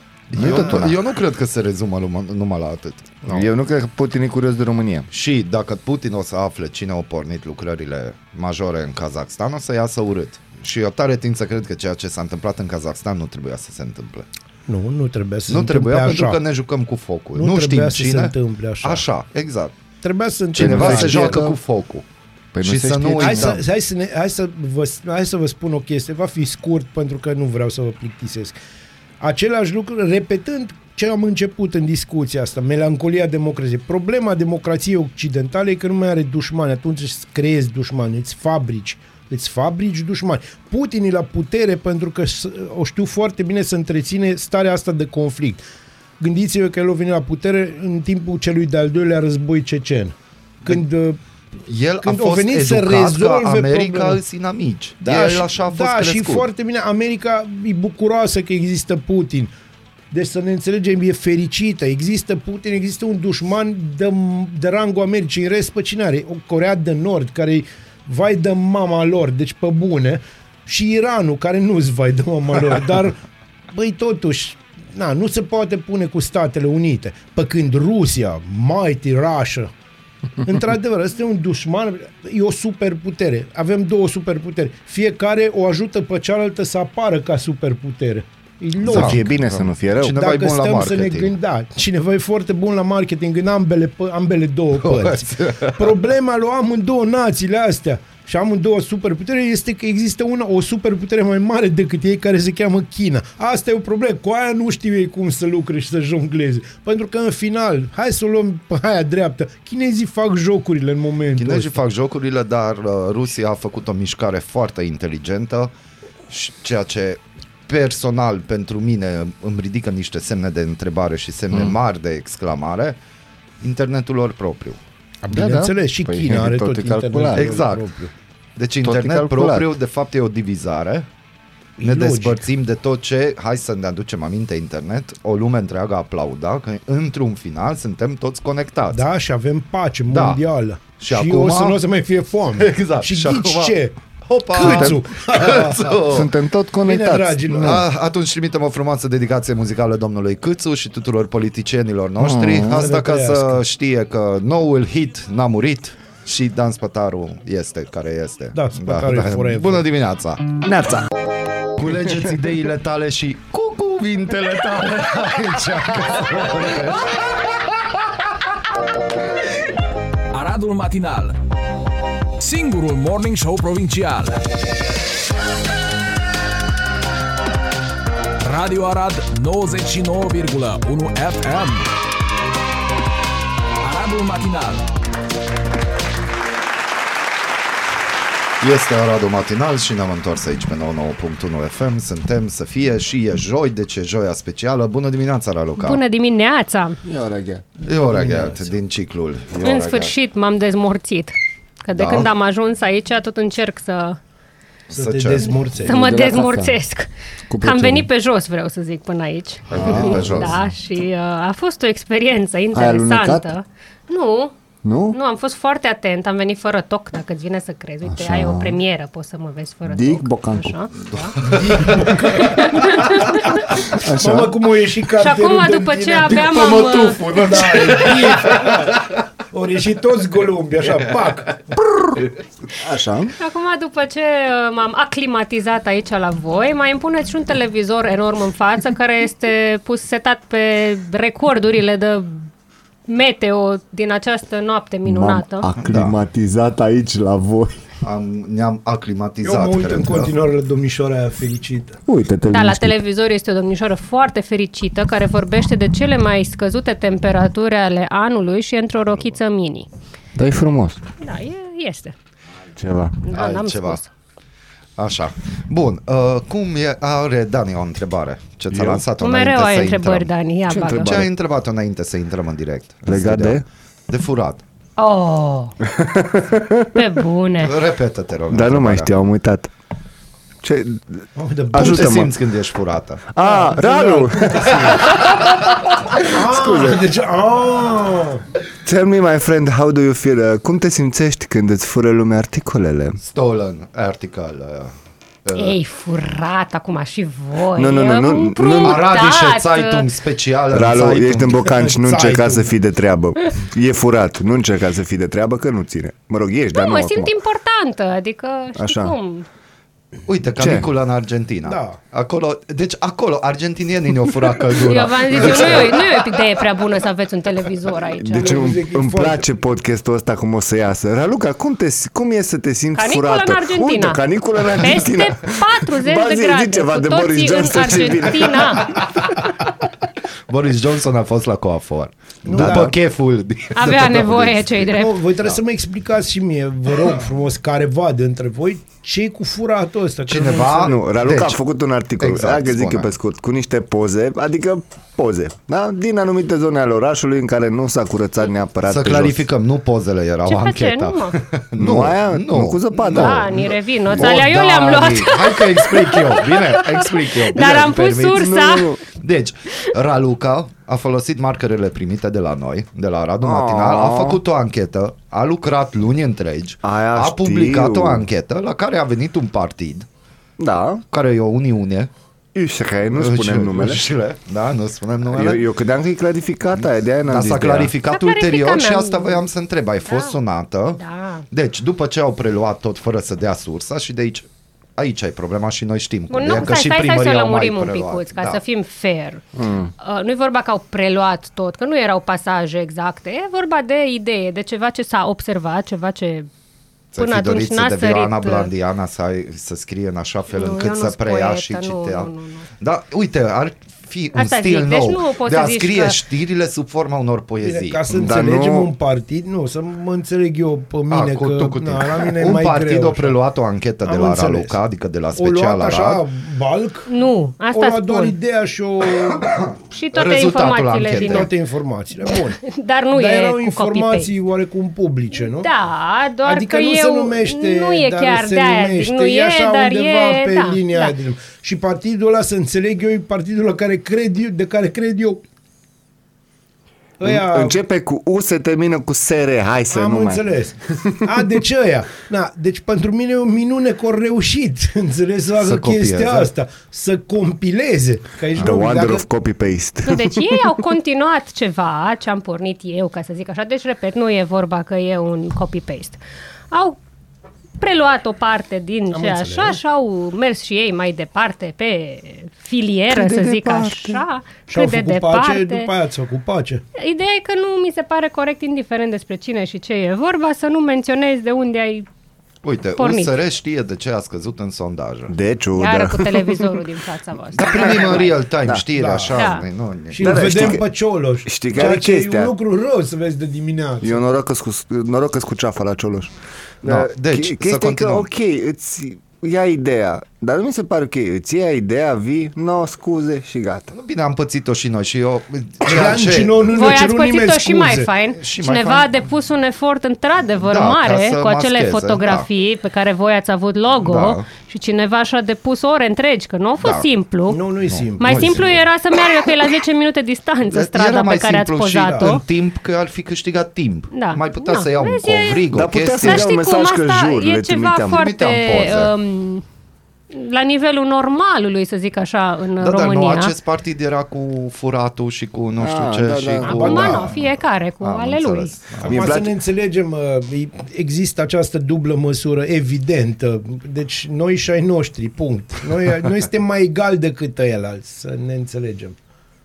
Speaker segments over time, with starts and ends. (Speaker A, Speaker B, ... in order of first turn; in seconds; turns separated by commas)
Speaker A: 0.3-0.9, Speaker B: 0.3-3.5, Speaker C: 0.4-0.8, Speaker A: 3.3-5.1, Speaker B: 5.1-14.3, Speaker C: 14.7-16.4, Speaker B: 15.5-19.8, Speaker C: 17.4-19.1, Speaker C: 20.0-21.5, Speaker B: 20.5-22.1, Speaker A: 20.6-21.6, Speaker A: 22.5-23.6, Speaker B: 22.6-23.6, Speaker C: 23.2-28.6, Speaker C: 29.2-45.6, Speaker C: 46.2-51.2, Speaker B: 51.7-56.5, Speaker C: 52.0-54.2, Speaker C: 55.0-59.5, Speaker C: 60.1-73.2, Speaker C: 73.7-79.7, Speaker C: 80.4-89.3, Speaker A: 88.8-90.2, Speaker B: 88.8-91.3, Speaker C: 90.1-111.8, Speaker B: 94.8-95.9, Speaker B: 111.4-115.7, Speaker B: 116.3-123.0, Speaker B: 123.6-124.8, Speaker C: 125.2-128.1, Speaker A: 125.3-127.5, Speaker B: 127.4-127.9, Speaker B: 128.6-131.1, Speaker A: 128.8-129.7, Speaker C: 131.8-132.5, Speaker B: 131.8-139.0, Speaker C: 138.9-146.0, Speaker B: 140.1-140.4, Speaker B: 141.0-141.8, Speaker B: 142.6-146.3, Speaker A: 144.6-145.0, Speaker A: 146.1-147.8, Speaker C: 146.8-147.8, Speaker B: 147.6-160.6, Speaker A: 152.2-152.8, Speaker C: 152.7-153.6, Speaker C: 158.5-159.8, Speaker A: 160.6-161.1, Speaker B: 161.8-167.1, Speaker D: 170.3-171.4, Speaker D: 172.4-174.4, Speaker D: 178.4-181.9, Speaker D: 183.8-184.8, Speaker B: 188.6-196.0, Speaker E: 195.8-197.0, Speaker A: 197.0-197.7, Speaker B: 197.8-200.2, Speaker C: 198.1-198.6, Speaker E: 199.6-204.2, Speaker B: 201.9-202.3, Speaker B: 204.9-205.5, Speaker C: 204.9-206.0, Speaker E: 205.7-207.1, Speaker A: 205.8-206.8, Speaker A: 207.5-208.1, Speaker E: 207.6-214.6, Speaker B: 209.7-210.6, Speaker A: 209.8-210.6, Speaker A: 212.7-213.5, Speaker A: 214.8-215.2, Speaker E: 215.1-221.4, Speaker A: 218.1-218.8, Speaker A: 219.9-220.8, Speaker B: 221.1-222.6, Speaker C: 221.4-222.9, Speaker E: 222.4-223.7, Speaker A: 223.9-224.6, Speaker C: 223.9-226.8, Speaker E: 225.2-227.5, Speaker B: 226.3-228.6, Speaker C: 227.4-231.6, Speaker A: 232.7-233.3, Speaker E: 233.4-242.5, Speaker E: 243.1-245.7, Speaker A: 245.1-247.8, Speaker B: 245.8-246.2, Speaker B: 248.0-250.3, Speaker C: 249.4-252.0, Speaker A: 252.1-253.0, Speaker E: 252.5-259.9, Speaker B: 259.0-259.4, Speaker A: 260.4-261.0, Speaker E: 261.2-262.1, Speaker A: 262.8-263.2, Speaker E: 263.3-264.1, Speaker B: 263.3-264.0, Speaker B: 265.0-270.3, Speaker A: 268.7-269.0, Speaker E: 269.2-271.1, Speaker A: 270.7-271.3, Speaker B: 270.9-274.6, Speaker A: 273.1-273.6, Speaker E: 275.0-275.7, Speaker A: 275.9-277.0, Speaker E: 276.9-277.8, Speaker B: 277.6-279.2, Speaker A: 278.5-279.7, Speaker A: 280.6-282.3, Speaker C: 281.4-282.3, Speaker B: 281.7-283.3, Speaker A: 283.3-287.0, Speaker C: 283.4-285.3, Speaker C: 286.2-288.4, Speaker A: 288.9-293.2, Speaker B: 293.2-294.9, Speaker B: 295.4-295.8, Speaker E: 295.6-300.1, Speaker A: 297.8-299.0, Speaker B: 298.8-301.8, Speaker A: 300.7-307.3, Speaker C: 301.7-302.7, Speaker E: 306.7-309.5, Speaker A: 308.8-309.1, Speaker B: 310.3-316.5, Speaker A: 310.6-310.9, Speaker C: 311.6-312.0, Speaker E: 314.7-318.6, Speaker A: 318.2-328.8, Speaker C: 318.3-319.5, Speaker E: 322.9-329.0, Speaker B: 328.9-329.4, Speaker B: 330.5-334.9, Speaker C: 332.4-332.9, Speaker A: 332.6-332.9, Speaker E: 333.8-335.2, Speaker C: 334.9-341.0, Speaker B: 340.3-341.6, Speaker A: 340.8-349.4, Speaker B: 342.2-343.1, Speaker B: 348.9-370.1, Speaker E: 350.4-351.4, Speaker A: 351.8-353.5, Speaker E: 353.1-358.9, Speaker A: 358.3-359.0, Speaker A: 363.4-364.4, Speaker A: 366.8-368.2, Speaker A: 370.6-371.0, Speaker B: 371.1-372.1, Speaker A: 372.6-374.0, Speaker B: 373.1-375.7, Speaker A: 375.3-377.9, Speaker B: 377.3-384.4, Speaker E: 378.1-379.4, Speaker E: 380.1-380.4, Speaker E: 381.0-381.4, Speaker B: 385.0-388.6, Speaker E: 386.3-389.4, Speaker A: 389.6-389.9, Speaker E: 390.0-396.5, Speaker B: 397.1-408.0, Speaker E: 397.2-398.7, Speaker E: 400.5-402.7, Speaker E: 404.3-406.2, Speaker C: 407.6-413.4, Speaker A: 408.1-408.9, Speaker B: 411.1-416.2, Speaker C: 414.1-414.8, Speaker C: 415.4-417.1, Speaker E: 417.1-418.4, Speaker C: 417.7-419.5, Speaker B: 419.4-421.5, Speaker E: 419.9-421.5, Speaker C: 421.2-422.6, Speaker E: 422.3-424.3, Speaker C: 423.1-425.7, Speaker E: 425.3-431.2, Speaker C: 426.4-435.4, Speaker C: 437.2-437.8, Speaker A: 437.2-440.4, Speaker C: 439.9-449.2, Speaker B: 445.6-446.5, Speaker A: 448.6-450.6, Speaker E: 450.1-457.0, Speaker E: 457.8-465.9, Speaker C: 459.1-459.8, Speaker A: 463.1-464.2, Speaker C: 464.7-466.9, Speaker E: 467.0-472.1, Speaker B: 472.6-475.3, Speaker E: 473.0-473.4, Speaker A: 475.3-476.8, Speaker E: 475.8-478.4, Speaker B: 477.5-480.8, Speaker C: 478.9-479.4, Speaker E: 479.4-479.7, Speaker C: 480.1-484.2, Speaker A: 480.2-480.9, Speaker A: 481.4-482.5, Speaker A: 484.0-493.9, Speaker B: 486.9-488.3, Speaker B: 493.9-496.9, Speaker C: 495.9-498.1, Speaker E: 496.7-507.6, Speaker B: 498.3-499.3, Speaker B: 500.6-502.5, Speaker B: 503.9-504.5, Speaker B: 506.8-507.1, Speaker C: 507.5-508.8, Speaker B: 507.9-508.8, Speaker E: 508.2-512.4, Speaker B: 510.6-516.5, Speaker C: 512.0-512.4, Speaker E: 514.1-515.7, Speaker A: 515.7-518.2, Speaker E: 516.2-519.6, Speaker B: 518.1-519.1, Speaker E: 520.3-523.6, Speaker B: 522.8-529.2, Speaker A: 525.8-527.2, Speaker E: 526.7-528.9, Speaker C: 529.0-539.2, Speaker A: 529.0-529.5